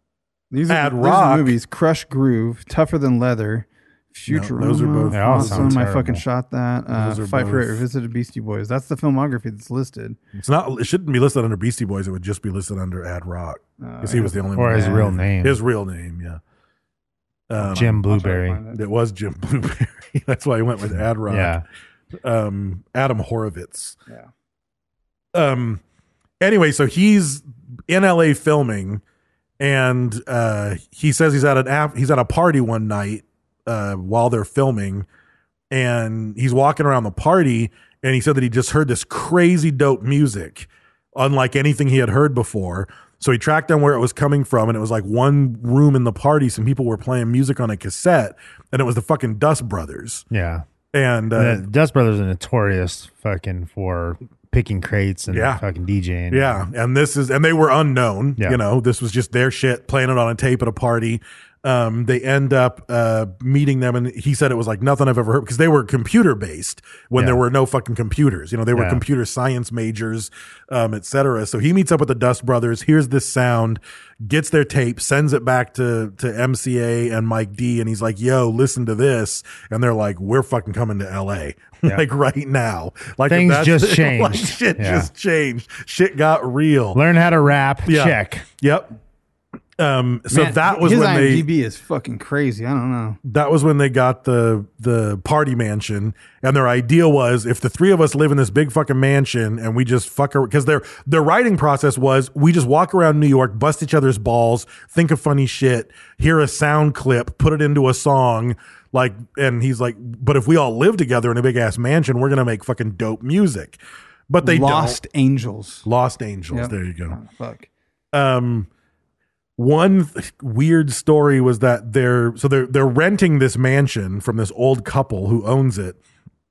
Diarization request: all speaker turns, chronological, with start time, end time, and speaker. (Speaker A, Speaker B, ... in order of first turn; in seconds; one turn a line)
Speaker A: 0.5-10.2
Speaker B: 0.7-1.6
Speaker B: 4.3-5.8
Speaker C: 5.1-6.2
Speaker B: 6.9-7.8
Speaker B: 10.3-16.4
Speaker A: 13.8-14.4
Speaker C: 14.6-15.6
Speaker B: 17.5-18.2
Speaker C: 17.6-18.6
Speaker A: 18.1-18.8
Speaker B: 18.7-21.6
Speaker C: 21.3-21.6
Speaker B: 22.2-24.0
Speaker B: 25.3-25.8
Speaker B: 26.4-29.0
Speaker B: 29.6-35.0
Speaker B: 35.7-50.2
Speaker C: 50.3-50.6
Speaker B: 50.9-51.6
Speaker C: 51.4-56.6
Speaker B: 55.3-55.6
Speaker B: 56.3-87.0
Speaker C: 68.7-69.0
Speaker C: 83.3-85.1
Speaker C: 86.9-88.4
Speaker B: 87.8-89.0
Speaker B: 89.8-91.5
Speaker A: 90.3-93.2
Speaker B: 93.2-115.0
Speaker A: 114.4-115.8
Speaker B: 115.8-117.2
Speaker A: 116.5-117.7
Speaker B: 118.1-118.7
Speaker B: 119.6-126.0